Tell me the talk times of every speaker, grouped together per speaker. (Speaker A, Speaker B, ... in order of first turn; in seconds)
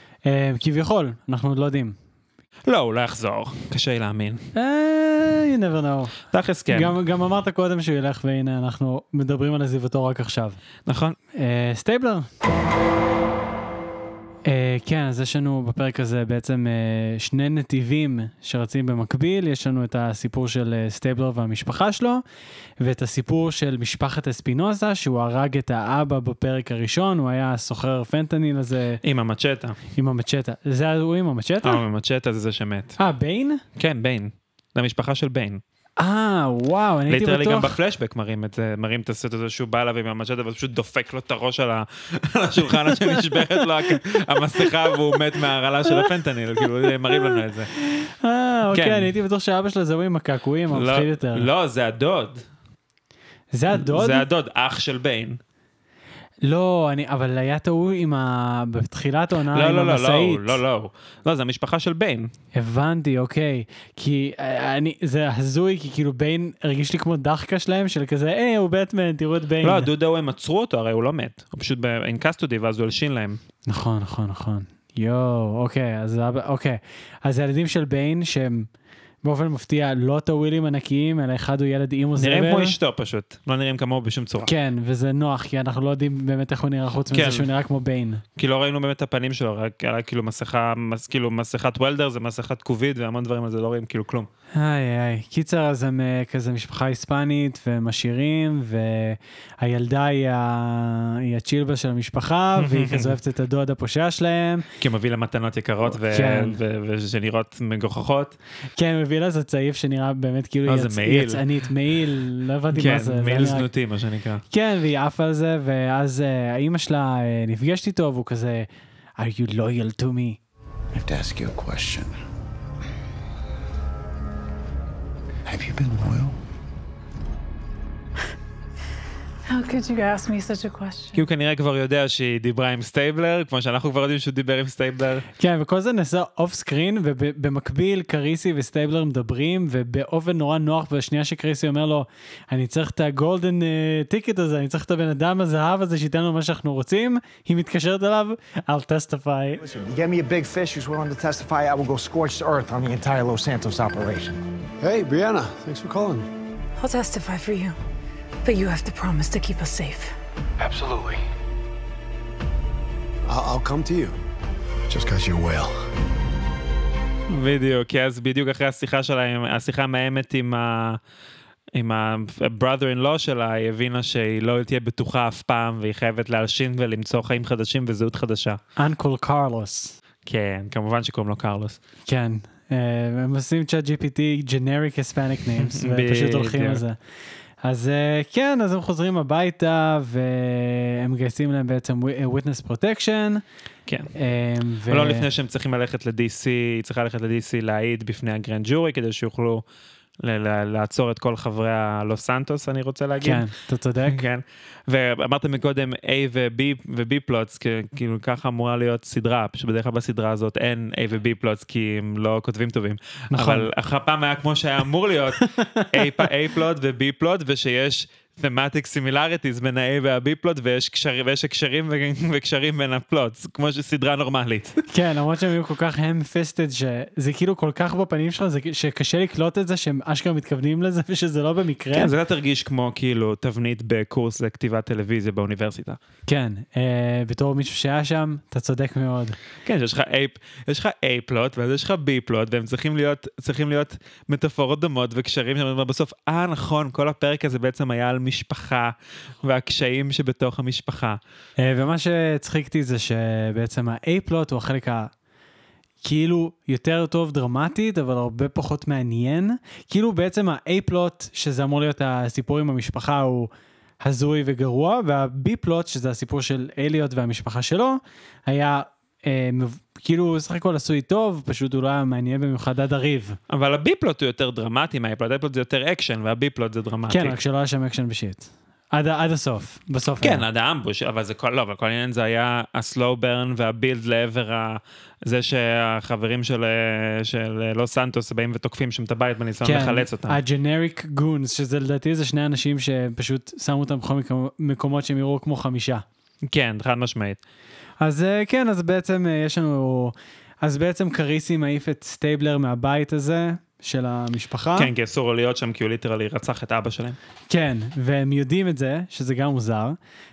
Speaker A: 0.3-2.0, 4.5-10.6, 11.4-12.3, 14.5-22.2, 22.8-29.0, 30.0-31.8, 33.0-33.6, 36.0-37.7, 42.9-43.6, 47.1-51.5, 53.5-54.2, 56.5-60.6, 62.5-69.9, 73.7-78.7, 79.2-82.8, 84.5-88.2, 94.6-104.7, 105.9-106.6, 108.8-113.7, 114.5-118.7, 119.2-120.4, 135.4-149.6, 178.8-180.0, 182.1-187.0, 187.6-193.4, 194.2-195.3, 203.2-204.2, 213.3-213.7, 215.6-216.0, 224.9-232.1, 236.3-239.4, 251.6-255.1, 256.0-263.5, 264.0-273.4, 277.1-280.4, 289.6-296.0, 298.0-304.9, 307.5-310.0
Speaker B: 2.7-4.5, 6.3-7.0, 10.9-11.2, 29.0-29.8, 31.6-33.0, 33.8-35.6, 37.1-47.7, 48.7-49.1, 50.7-52.4, 53.7-55.4, 59.5-62.3, 69.6-73.4, 82.2-84.5, 87.1-87.5, 88.4-94.3, 102.6-103.1, 104.8-108.4, 110.7-111.4, 112.7-114.4, 131.1-135.3, 167.3-171.0, 171.8-178.6, 180.3-181.8, 185.6-186.8, 194.9-199.6, 200.2-203.5, 204.1-224.8, 231.9-236.0, 239.7-251.2, 273.5-277.4, 280.2-290.4, 296.5-297.4, 304.8-307.2
Speaker C: 120.9-122.2, 125.5-126.4
Speaker D: 149.6-154.4
Speaker E: 154.8-156.3, 160.6-161.2, 163.3-164.2, 164.9-165.7
Speaker F: 156.8-157.6, 158.5-160.0